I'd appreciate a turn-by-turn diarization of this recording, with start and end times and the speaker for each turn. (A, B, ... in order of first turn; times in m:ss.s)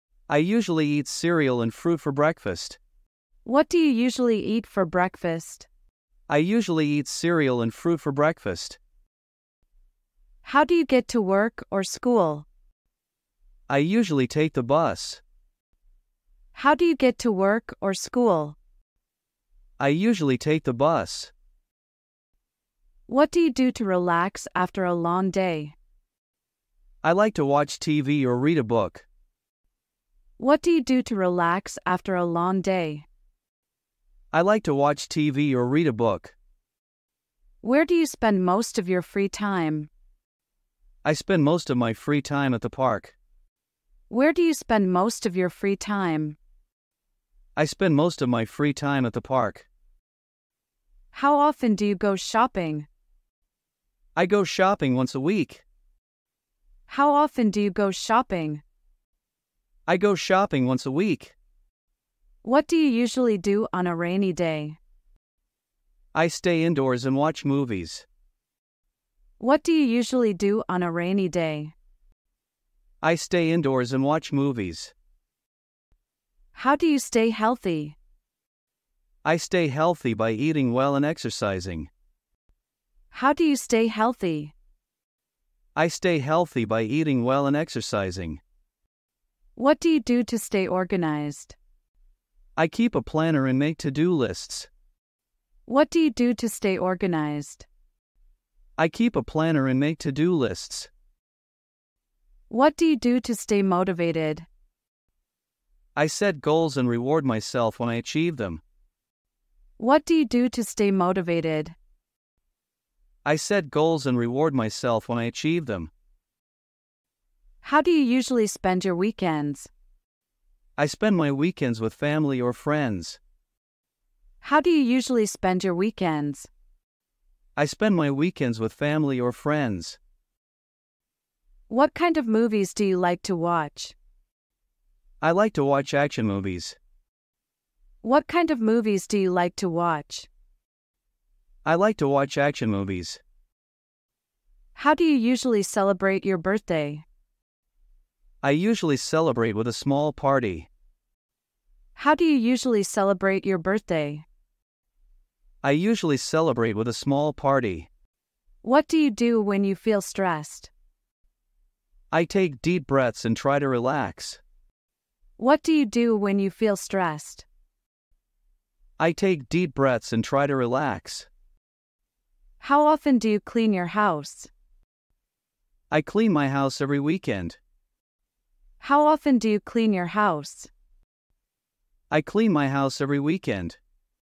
0:00.3-0:02.8 A
0:03.4-0:05.7 B
0:06.3-0:08.8 A
0:10.4-0:12.5 B
0:13.7-0:15.2 A
0:16.5-0:18.6 B
0:19.8-0:21.3 A
0:23.1-0:25.8 B
0:27.0-0:29.1 A
0:30.4-0:33.1 B
0:34.3-0:36.4 A
0:37.6-0:39.9 B
0:41.0-0:43.2 A
0:44.1-0:46.4 B
0:47.6-0:49.7 A
0:51.1-0:52.9 B
0:54.2-0:55.6 A
0:56.9-0:58.6 B
0:59.9-1:01.4 A
1:02.4-1:04.8 B
1:06.1-1:08.1 A
1:09.4-1:11.7 B
1:13.0-1:14.9 A
1:16.5-1:18.0 B
1:19.2-1:21.9 A
1:23.1-1:24.5 B
1:25.8-1:28.4 A
1:29.6-1:31.6 B
1:32.6-1:34.7 A
1:35.7-1:37.7 B
1:38.8-1:40.9 A
1:42.5-1:44.5 B
1:46.0-1:48.6 A
1:49.8-1:51.8 B
1:53.2-1:55.9 A
1:57.6-1:59.7 B
2:00.8-2:03.2 A
2:04.4-2:06.5 B
2:07.6-2:10.0 A
2:11.7-2:14.0 B
2:15.2-2:16.8 A
2:18.0-2:20.3 B
2:21.6-2:23.2 A
2:24.8-2:27.0 B
2:28.4-2:30.7 A
2:32.0-2:34.2 B
2:35.6-2:37.9 A
2:38.6-2:40.7 B
2:42.1-2:44.4 A
2:45.4-2:47.5 B
2:49.0-2:51.3 A
2:52.6-2:54.5 B
2:55.9-2:57.6 A
2:58.8-3:00.7 B
3:02.1-3:03.8 A